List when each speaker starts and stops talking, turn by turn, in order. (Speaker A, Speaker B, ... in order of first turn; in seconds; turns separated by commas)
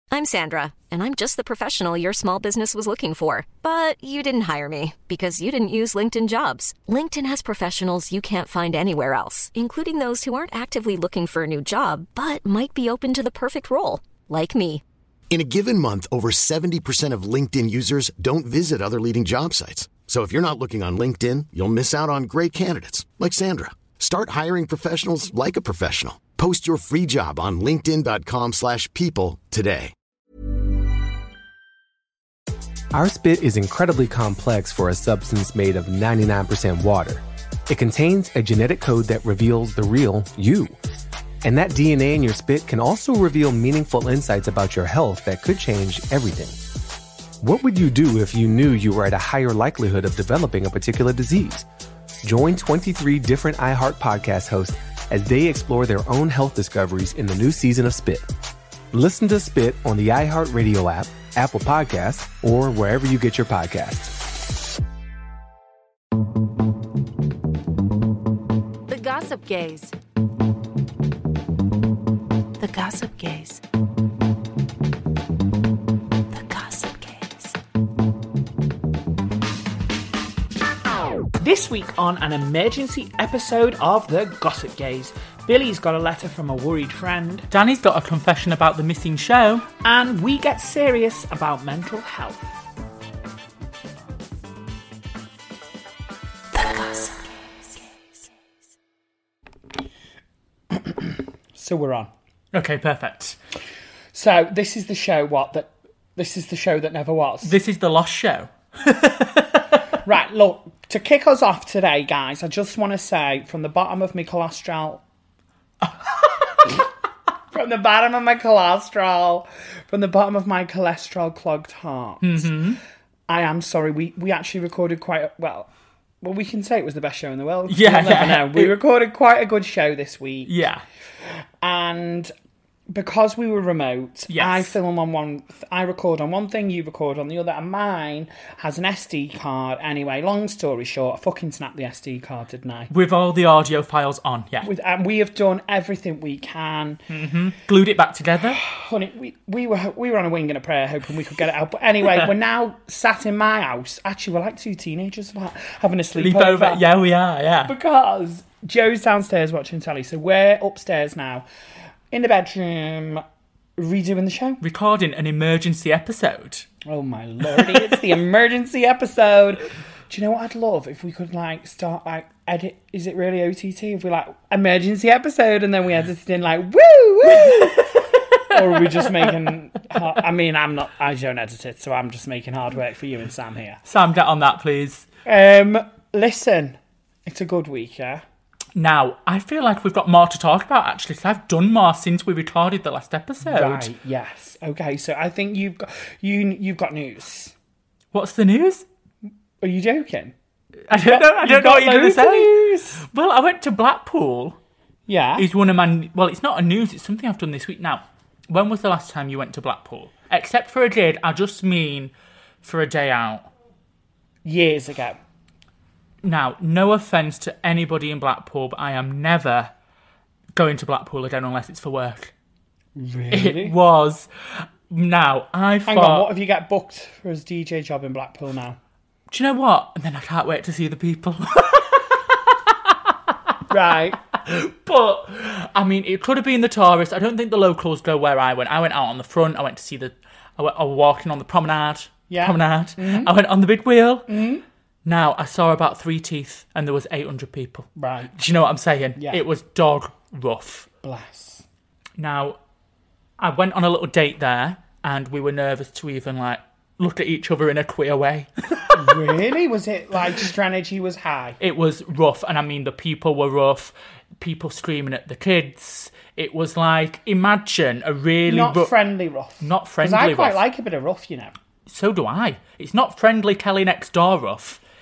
Speaker A: 0.1-14.8, Speaker B: 15.3-29.9, Speaker C: 32.9-40.8, Speaker C: 41.4-46.6, Speaker C: 47.4-51.7, Speaker C: 52.2-58.3, Speaker C: 58.9-64.2, Speaker D: 68.9-69.9, Speaker D: 72.6-73.6, Speaker D: 76.3-77.5, Speaker E: 81.4-87.5, Speaker F: 87.5-89.7, Speaker E: 89.8-92.5, Speaker D: 96.5-97.8, Speaker E: 100.7-102.1, Speaker F: 102.5-103.4, Speaker E: 104.1-107.5, Speaker F: 107.4-109.7, Speaker E: 110.0-115.0, Speaker E: 117.5-122.6, Speaker F: 122.2-122.8, Speaker E: 123.3-125.7, Speaker E: 126.2-130.5, Speaker F: 127.7-128.8, Speaker F: 130.5-130.8, Speaker E: 131.6-132.3, Speaker E: 132.9-142.9, Speaker F: 134.3-134.8, Speaker F: 142.9-144.7, Speaker E: 144.6-147.0, Speaker F: 147.1-148.6, Speaker E: 148.5-156.8, Speaker F: 156.2-157.7, Speaker E: 157.7-161.4, Speaker E: 162.1-163.2, Speaker E: 163.8-164.6, Speaker F: 164.6-166.7, Speaker E: 166.9-183.8, Speaker F: 167.5-167.9, Speaker F: 177.4-179.3, Speaker F: 183.9-185.1, Speaker E: 185.2-188.2, Speaker F: 188.8-193.9, Speaker E: 193.4-197.5, Speaker F: 198.1-198.8, Speaker E: 199.6-200.3, Speaker E: 200.9-203.0, Speaker F: 200.9-204.6, Speaker E: 205.1-205.5, Speaker F: 205.4-212.1, Speaker F: 212.6-213.5, Speaker E: 214.4-215.2, Speaker F: 216.2-219.7, Speaker F: 220.6-222.3, Speaker E: 223.0-223.7, Speaker F: 223.3-226.3, Speaker E: 225.9-228.8, Speaker F: 229.3-232.9, Speaker E: 233.7-234.2, Speaker F: 234.3-244.3, Speaker E: 242.3-243.3, Speaker E: 244.3-244.6, Speaker F: 245.1-250.9, Speaker E: 248.0-248.3, Speaker E: 249.2-249.4, Speaker E: 251.0-251.7, Speaker F: 252.2-252.6, Speaker F: 253.4-259.2, Speaker E: 258.9-261.6, Speaker F: 261.6-268.9, Speaker E: 268.5-271.5, Speaker F: 269.6-270.6, Speaker F: 271.9-274.8